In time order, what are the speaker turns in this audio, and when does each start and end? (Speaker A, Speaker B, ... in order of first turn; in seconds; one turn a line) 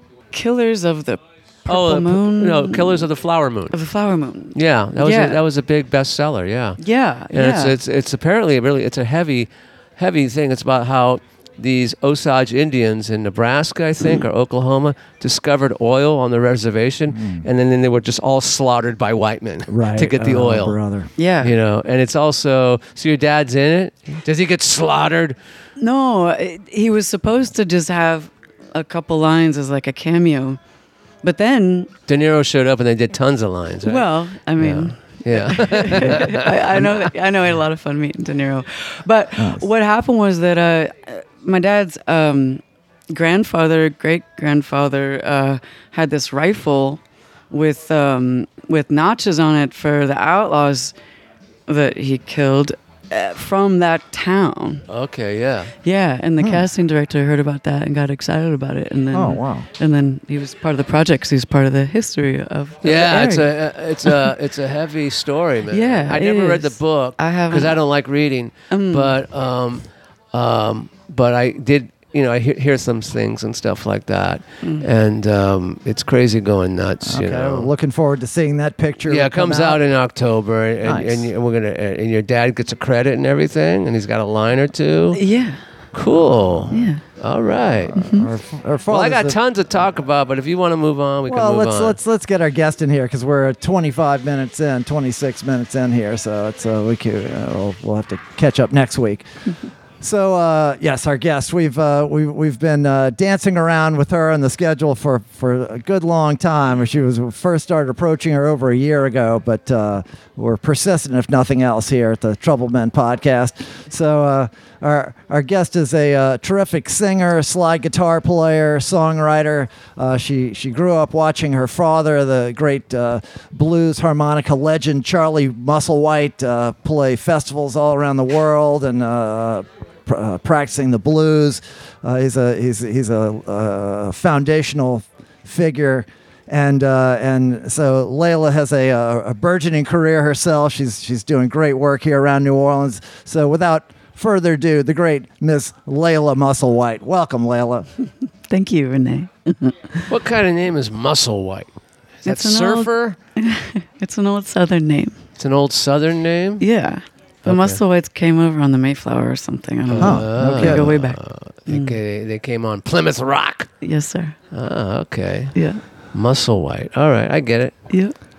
Speaker A: 0.3-3.1
Speaker B: 1.7-3.8
Speaker A: 3.7-5.4
Speaker B: 4.5-6.8
Speaker A: 6.8-7.8
Speaker B: 7.3-20.8
Speaker C: 17.1-17.4
Speaker C: 19.7-21.1
Speaker A: 21.2-21.5
Speaker B: 21.4-25.4
Speaker A: 25.8-30.6
Speaker A: 31.2-31.9
Speaker B: 32.1-37.1
Speaker A: 33.8-50.9
Speaker C: 39.4-39.6
Speaker A: 51.7-54.9
Speaker B: 54.9-55.7
Speaker A: 55.8-63.5
Speaker C: 59.1-59.7
Speaker B: 62.8-77.7
Speaker A: 64.0-64.3
Speaker A: 65.7-67.8
Speaker A: 68.7-69.2
Speaker C: 77.0-79.8
Speaker B: 79.1-85.2
Speaker C: 80.8-81.3
Speaker A: 85.1-85.6
Speaker B: 85.9-88.0
Speaker A: 86.7-87.0
Speaker C: 87.8-89.4
Speaker A: 88.0-88.3
Speaker B: 88.9-92.0
Speaker C: 91.3-99.3
Speaker C: 100.0-147.9
Speaker A: 148.5-150.1
Speaker B: 150.1-151.7
Speaker B: 152.2-153.2
Speaker A: 152.2-155.2
Speaker B: 155.4-156.7
Speaker A: 156.6-162.0
Speaker B: 157.4-157.8
Speaker B: 159.9-163.7
Speaker C: 160.0-160.9
Speaker A: 163.8-164.4
Speaker B: 164.5-165.6
Speaker A: 165.6-165.8
Speaker B: 166.1-167.7
Speaker A: 167.9-168.2